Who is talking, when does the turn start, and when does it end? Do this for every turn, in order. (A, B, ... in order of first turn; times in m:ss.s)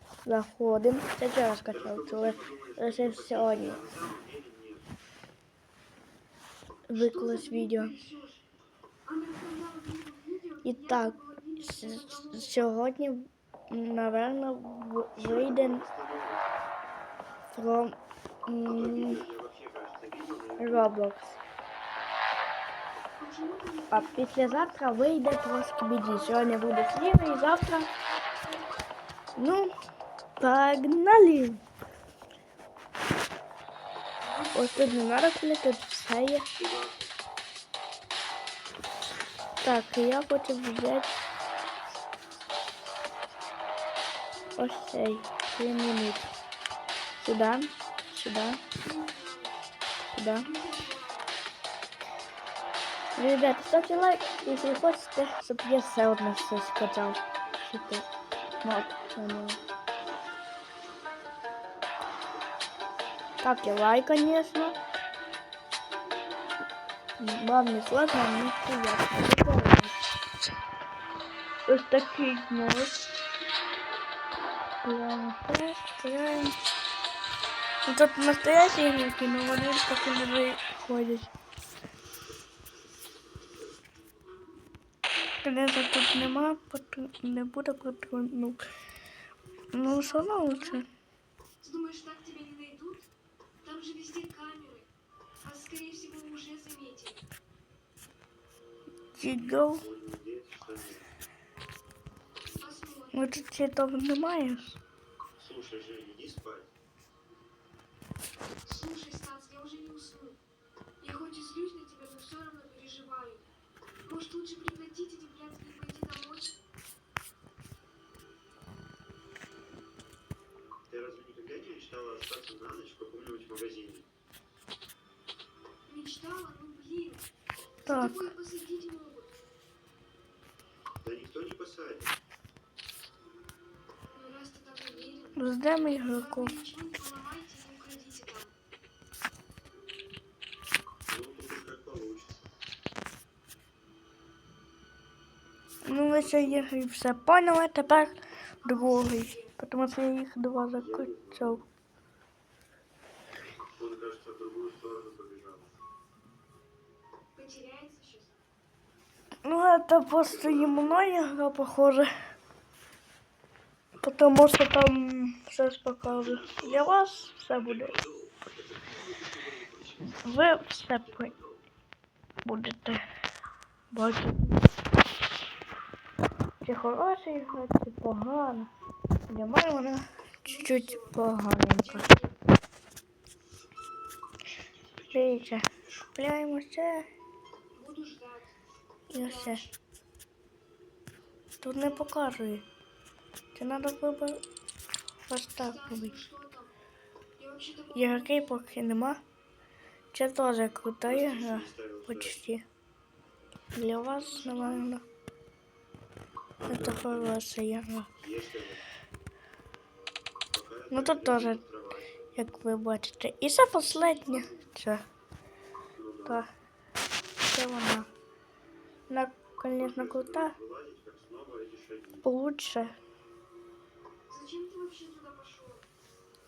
0:00.2-0:03.8 A
0:01.7-0:04.9 B
0:06.9-0:07.9 A
0:06.9-0:08.4 C
0:09.0-0:12.7 C
0:10.6-0:15.8 A
0:15.2-0:16.5 B
0:17.5-0:19.2 A
0:18.6-0:20.9 B
0:20.6-0:21.3 A
0:23.2-0:24.7 C
0:23.9-0:27.9 A
0:26.1-0:26.7 C
0:28.4-0:28.8 C
0:29.4-0:29.7 A
0:30.4-0:31.6 A
0:34.2-0:35.1 C
0:34.6-0:36.5 A
0:36.6-0:37.1 B
0:39.6-0:41.2 A
0:44.6-0:46.3 A
0:47.2-0:48.6 A
0:48.8-0:49.6 C
0:50.1-0:50.5 A
0:50.4-0:51.4 C
0:53.2-0:58.1 A
0:58.6-0:59.6 A
1:03.4-1:04.8 A
1:07.2-1:10.0 A
1:11.7-1:13.0 A
1:14.8-1:16.6 A
1:17.9-1:21.3 A
1:25.4-1:28.6 A
1:29.7-1:30.9 A
1:29.8-1:30.8 C
1:31.6-1:33.1 C
1:33.6-1:34.9 C
1:35.4-1:37.2 C
1:39.2-1:39.8 A
1:39.8-1:41.1 B
1:42.6-1:43.4 C
1:43.1-1:44.8 A
1:45.4-1:46.7 B
1:48.6-1:50.4 C
1:51.0-1:53.5 C
1:54.0-1:56.6 C
2:00.9-2:04.1 B
2:05.9-2:07.3 C
2:07.8-2:09.3 C
2:07.9-2:08.2 A
2:11.0-2:12.1 B
2:14.1-2:18.5 C
2:15.4-2:16.5 A
2:21.1-2:22.4 B
2:25.8-2:31.6 A
2:26.0-2:26.7 B
2:28.6-2:29.6 C
2:30.7-2:31.6 B
2:33.8-2:35.7 B
2:37.4-2:38.4 C
2:39.4-2:42.1 A
2:40.2-2:41.1 B
2:44.0-2:48.0 A
2:46.3-2:46.8 B
2:47.7-2:50.2 B
2:50.2-2:51.3 A
2:52.4-2:53.0 A
2:53.9-2:54.6 A
2:56.6-2:58.7 A
2:59.3-3:02.1 A
3:00.4-3:01.2 C
3:01.8-3:02.4 C
3:05.1-3:07.1 A
3:07.7-3:08.5 C
3:09.1-3:09.6 A
3:09.1-3:09.8 C
3:11.6-3:12.7 A
3:13.6-3:14.4 A
3:15.3-3:16.2 A
3:15.6-3:16.7 C
3:17.4-3:18.5 C
3:17.9-3:19.2 A
3:20.1-3:22.6 A
3:21.0-3:22.4 B
3:23.8-3:25.0 A
3:24.2-3:24.9 C
3:26.6-3:27.4 B
3:26.6-3:28.1 A
3:28.2-3:28.8 B
3:30.5-3:32.2 B
3:30.9-3:31.6 A
3:32.4-3:35.0 A
3:33.8-3:34.7 C
3:36.0-3:36.4 B
3:37.5-3:38.1 A
3:39.1-3:40.6 A
3:39.8-3:42.3 B
3:42.2-3:43.0 A
3:44.3-3:45.9 C